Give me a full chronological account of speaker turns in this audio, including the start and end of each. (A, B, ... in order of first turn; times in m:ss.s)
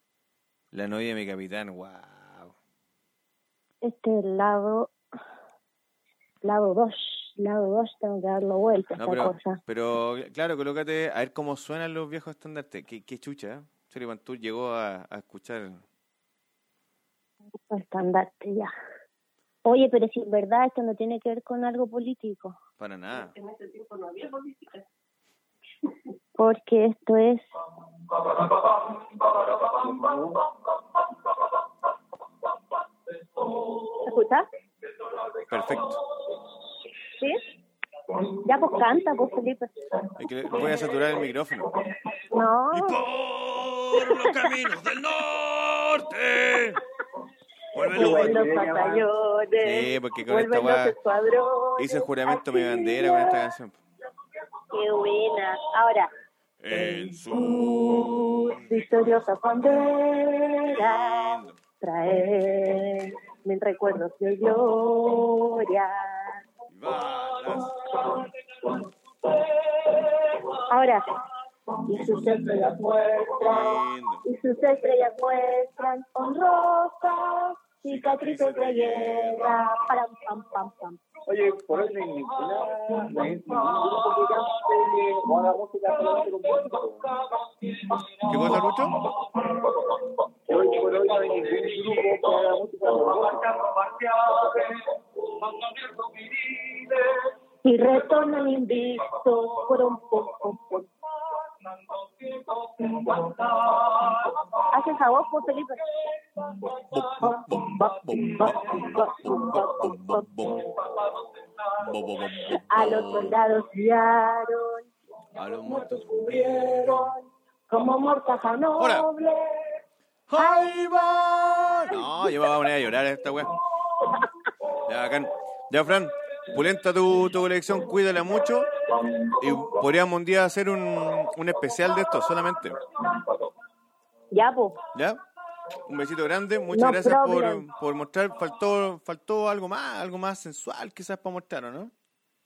0:00.7-0:02.5 A
0:03.8-0:04.9 B
0:06.4-0:09.6 B
0:09.0-0:15.8 A
0:17.7-0:18.7 B
0:19.6-0:22.6 B
0:22.8-0:23.3 A
0:23.4-0:24.7 B
0:26.4-0:27.4 B
0:29.8-0:30.4 C
0:33.9-0:34.5 B
0:35.5-0:36.0 A
0:37.2-0:37.4 B
0:38.3-0:39.7 B
0:40.2-0:41.7 A
0:42.3-0:43.0 B
0:42.7-0:46.8 A
0:44.0-0:44.5 B
0:47.7-0:48.4 A
0:47.8-0:53.4 B
0:47.9-0:49.0 C
0:49.6-0:51.0 A
0:51.8-0:53.8 A
0:54.7-0:56.1 B
0:56.6-1:00.0 A
0:56.7-1:06.4 B
1:00.6-1:01.6 A
1:06.7-1:07.8 A
1:07.9-1:08.7 B
1:10.3-1:11.0 B
1:11.8-1:21.0 B
1:13.4-1:14.2 A
1:17.8-1:19.6 A
1:21.3-1:27.1 C
1:28.2-1:29.0 A
1:30.4-1:33.6 C
1:37.6-1:40.9 B
1:42.6-1:45.9 B
1:46.9-1:50.6 A
1:47.5-1:51.0 B
1:51.8-1:53.4 A
1:52.7-1:54.9 B
1:55.3-1:57.1 A
1:55.6-1:59.7 B
1:58.8-1:59.1 A
2:00.3-2:03.5 A
2:00.4-2:02.0 B
2:04.8-2:08.7 A
2:09.4-2:12.8 A
2:14.3-2:14.8 B
2:14.9-2:15.2 A
2:15.8-2:21.9 A
2:16.7-2:17.6 B